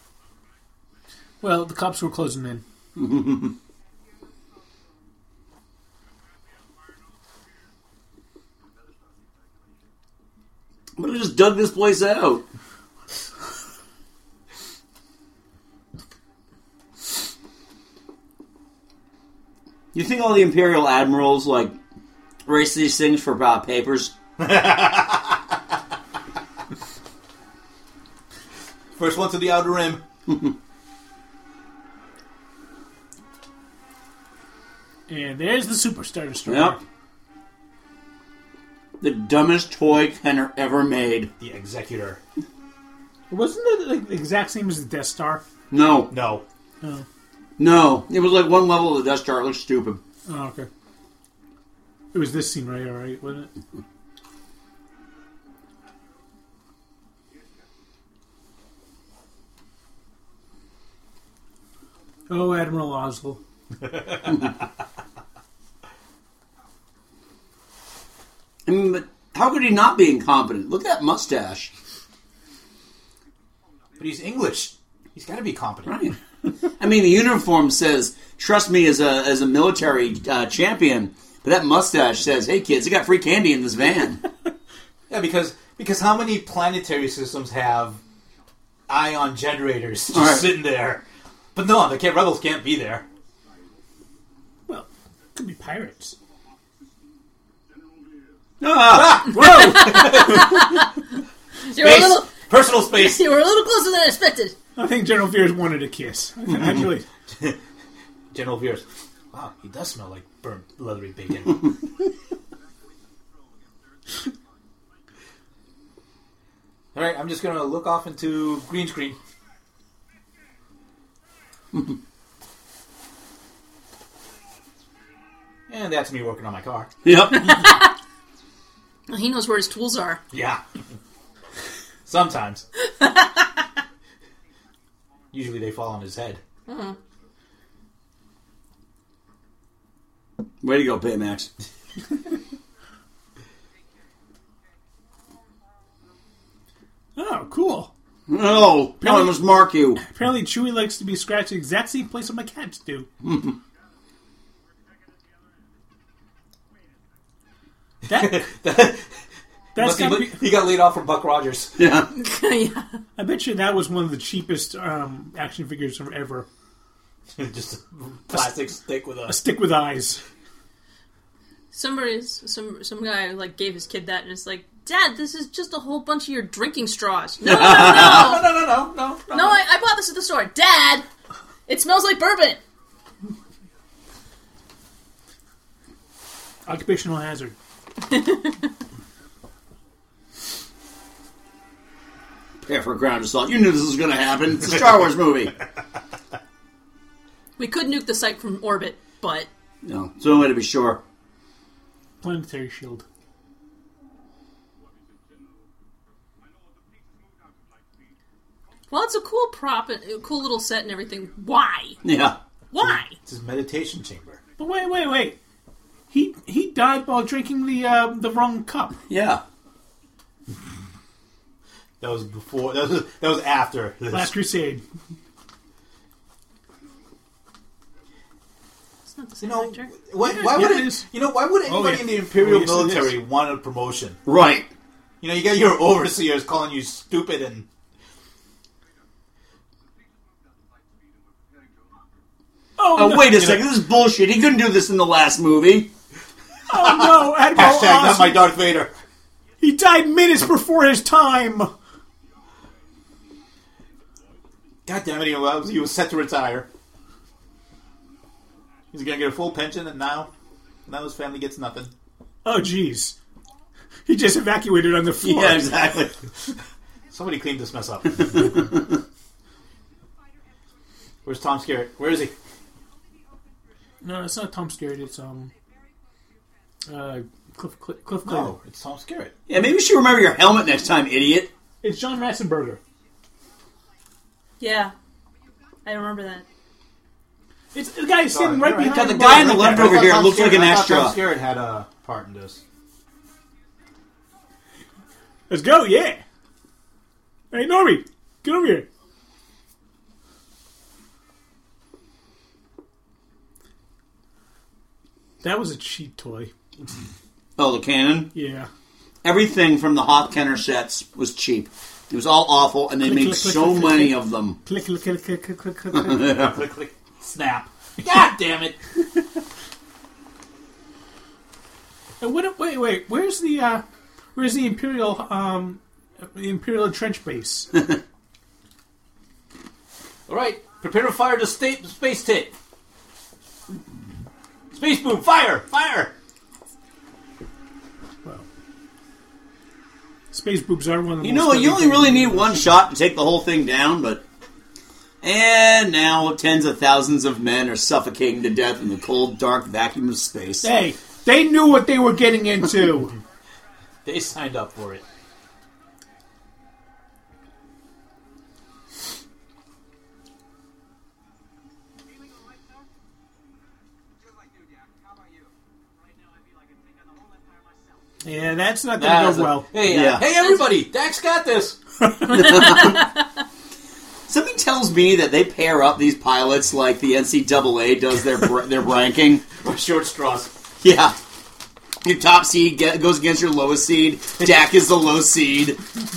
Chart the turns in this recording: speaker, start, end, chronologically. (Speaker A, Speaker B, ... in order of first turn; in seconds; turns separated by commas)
Speaker A: 1.4-2.6, Speaker B: 3.0-3.5, Speaker B: 11.0-12.4, Speaker B: 19.9-21.7, Speaker B: 22.4-24.1, Speaker C: 24.4-25.4, Speaker C: 28.9-30.0, Speaker A: 35.1-36.8, Speaker B: 36.5-36.8, Speaker B: 39.0-41.3, Speaker C: 41.4-42.2, Speaker A: 43.3-45.4, Speaker B: 45.7-46.2, Speaker C: 46.1-46.4, Speaker B: 47.6-50.0, Speaker A: 50.3-50.7, Speaker A: 52.1-53.5, Speaker A: 62.3-63.4, Speaker B: 68.7-71.7, Speaker C: 74.0-76.0, Speaker B: 75.9-76.2, Speaker B: 76.8-84.2, Speaker C: 85.1-88.0, Speaker C: 88.9-91.0, Speaker B: 90.1-90.5, Speaker C: 91.5-93.0, Speaker A: 94.7-96.1, Speaker B: 98.6-99.6, Speaker C: 99.0-100.5, Speaker A: 99.1-100.1, Speaker D: 99.5-100.9, Speaker D: 101.7-104.5, Speaker C: 101.8-103.2, Speaker A: 104.8-107.0, Speaker C: 107.3-107.6, Speaker C: 108.3-111.7, Speaker C: 116.9-119.2, Speaker C: 125.7-126.9, Speaker B: 127.0-127.8, Speaker D: 127.3-127.9, Speaker D: 129.1-130.2, Speaker C: 130.3-130.6, Speaker C: 132.1-132.6, Speaker D: 132.8-133.6, Speaker C: 135.3-136.4, Speaker D: 136.7-136.9, Speaker B: 140.6-141.5, Speaker A: 147.2-147.9, Speaker B: 148.3-150.0, Speaker A: 149.0-149.3, Speaker A: 150.0-153.1, Speaker B: 153.2-153.6, Speaker C: 158.1-159.2, Speaker A: 158.1-158.4, Speaker A: 159.7-160.5, Speaker C: 159.7-161.8, Speaker B: 161.8-162.1, Speaker D: 162.1-162.9, Speaker A: 163.2-166.5, Speaker C: 167.3-169.4, Speaker A: 169.3-170.2, Speaker D: 171.7-178.5, Speaker B: 177.4-178.3, Speaker C: 177.5-179.6, Speaker D: 179.3-181.0, Speaker D: 181.7-182.6, Speaker A: 186.7-187.6, Speaker D: 188.1-188.6, Speaker B: 192.6-195.6, Speaker D: 197.6-199.5, Speaker B: 199.8-201.0, Speaker A: 202.2-203.0, Speaker D: 208.9-212.0, Speaker B: 212.0-212.4, Speaker D: 212.7-213.2, Speaker C: 212.8-214.4, Speaker A: 214.6-215.4, Speaker A: 216.1-219.0, Speaker B: 219.1-219.4, Speaker C: 222.0-224.3, Speaker A: 224.1-224.8, Speaker D: 229.1-229.9, Speaker C: 229.4-234.2, Speaker A: 230.2-231.1, Speaker A: 231.6-233.2, Speaker B: 234.2-234.7, Speaker C: 235.2-237.7, Speaker A: 242.8-243.7, Speaker B: 242.9-245.9, Speaker A: 246.7-248.5, Speaker C: 246.8-248.9, Speaker A: 249.6-251.7, Speaker C: 254.8-256.7, Speaker C: 258.9-260.3, Speaker C: 260.9-261.9, Speaker A: 262.4-263.1, Speaker A: 264.1-265.7, Speaker B: 265.2-266.1, Speaker C: 267.1-268.6, Speaker C: 271.2-272.3, Speaker A: 274.0-275.5, Speaker A: 276.9-278.5, Speaker C: 278.2-279.3, Speaker B: 279.5-281.5, Speaker A: 281.8-282.8, Speaker D: 284.6-284.9, Speaker D: 285.8-286.4, Speaker A: 287.7-290.0, Speaker C: 288.3-292.6, Speaker B: 288.8-291.1, Speaker A: 295.5-296.2, Speaker A: 297.5-298.9, Speaker A: 305.4-306.5, Speaker B: 307.6-308.3, Speaker A: 308.3-308.7, Speaker B: 309.2-314.6, Speaker A: 313.0-316.3, Speaker B: 315.9-316.5, Speaker C: 316.3-318.8, Speaker A: 322.2-323.8, Speaker A: 324.3-327.7, Speaker C: 330.3-332.5, Speaker C: 334.7-336.1, Speaker A: 340.3-342.7, Speaker B: 341.2-344.2, Speaker B: 345.2-350.6, Speaker A: 350.6-353.1, Speaker C: 354.0-355.0, Speaker A: 368.2-369.7, Speaker C: 369.0-371.8, Speaker B: 369.8-370.2, Speaker B: 372.3-373.1, Speaker D: 372.3-373.2, Speaker B: 374.3-379.4, Speaker C: 379.6-380.5, Speaker B: 380.8-381.1, Speaker B: 382.0-385.8